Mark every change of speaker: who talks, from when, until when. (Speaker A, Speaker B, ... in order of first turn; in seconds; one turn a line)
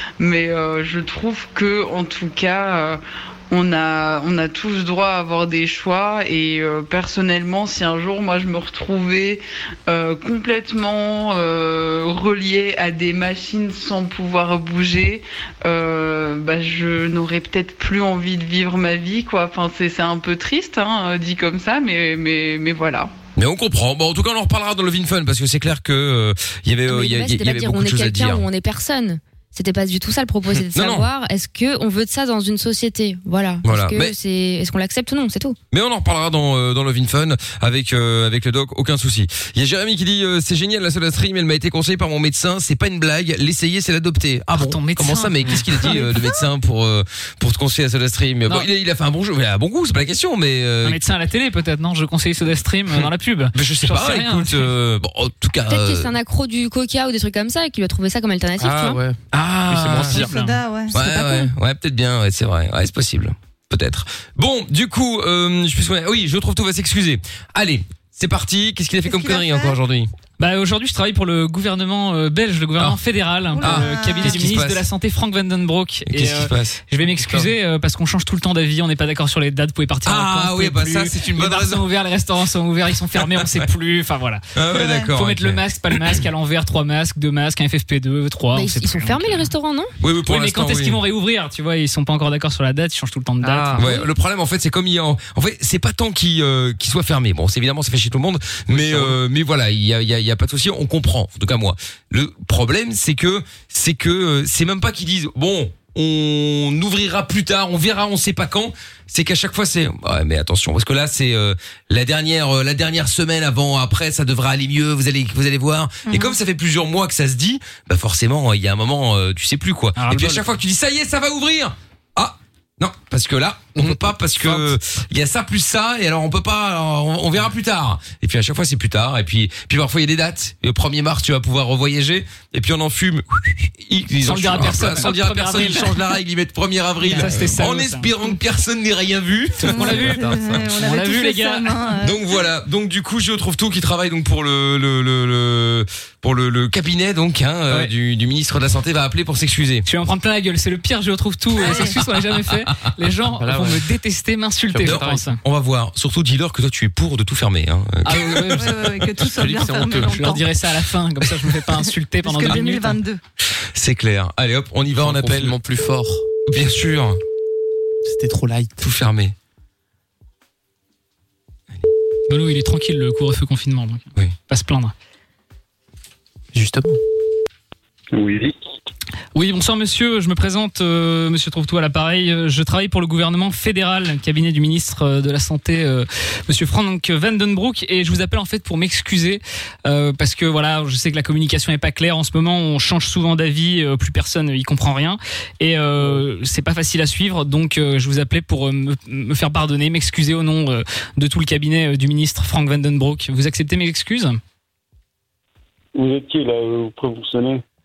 Speaker A: 0.2-23.1
Speaker B: 23.4-28.4
Speaker C: 26.9-35.6
Speaker B: 30.6-31.1
Speaker B: 33.6-34.1
Speaker B: 35.7-51.0
Speaker D: 44.5-46.2
Speaker D: 50.8-54.7
Speaker B: 52.9-56.1
Speaker C: 55.7-59.0
Speaker E: 58.6-59.2
Speaker B: 59.3-60.3
Speaker E: 59.7-60.2
Speaker D: 60.0-60.6
Speaker F: 60.0-61.5
Speaker B: 60.9-70.1
Speaker F: 69.0-69.8
Speaker D: 70.4-89.5
Speaker F: 73.5-74.4
Speaker B: 73.6-74.9
Speaker B: 76.1-77.5
Speaker B: 80.0-81.8
Speaker B: 83.2-83.6
Speaker B: 84.5-86.2
Speaker F: 84.7-85.1
Speaker C: 88.5-89.9
Speaker B: 90.0-91.0
Speaker D: 90.3-94.0
Speaker E: 93.4-93.9
Speaker B: 93.7-140.6
Speaker E: 98.7-99.2
Speaker F: 116.1-116.3
Speaker D: 120.0-120.5
Speaker E: 123.8-124.7
Speaker D: 134.2-136.0
Speaker D: 137.1-138.1
Speaker D: 139.6-141.8
Speaker F: 139.6-142.2
Speaker B: 142.0-149.9
Speaker D: 149.9-155.4
Speaker F: 151.6-151.9
Speaker E: 153.4-153.8
Speaker E: 154.7-155.2
Speaker B: 154.8-158.6
Speaker D: 158.1-158.9
Speaker F: 158.6-160.5
Speaker E: 159.2-160.1
Speaker D: 160.0-163.0
Speaker F: 162.2-163.2
Speaker B: 163.7-165.6
Speaker E: 165.0-166.2
Speaker B: 166.5-167.2
Speaker E: 168.1-168.8
Speaker B: 168.8-169.3
Speaker D: 172.3-174.9
Speaker E: 176.5-177.0
Speaker G: 178.1-178.5
Speaker D: 179.3-204.4
Speaker G: 205.9-207.6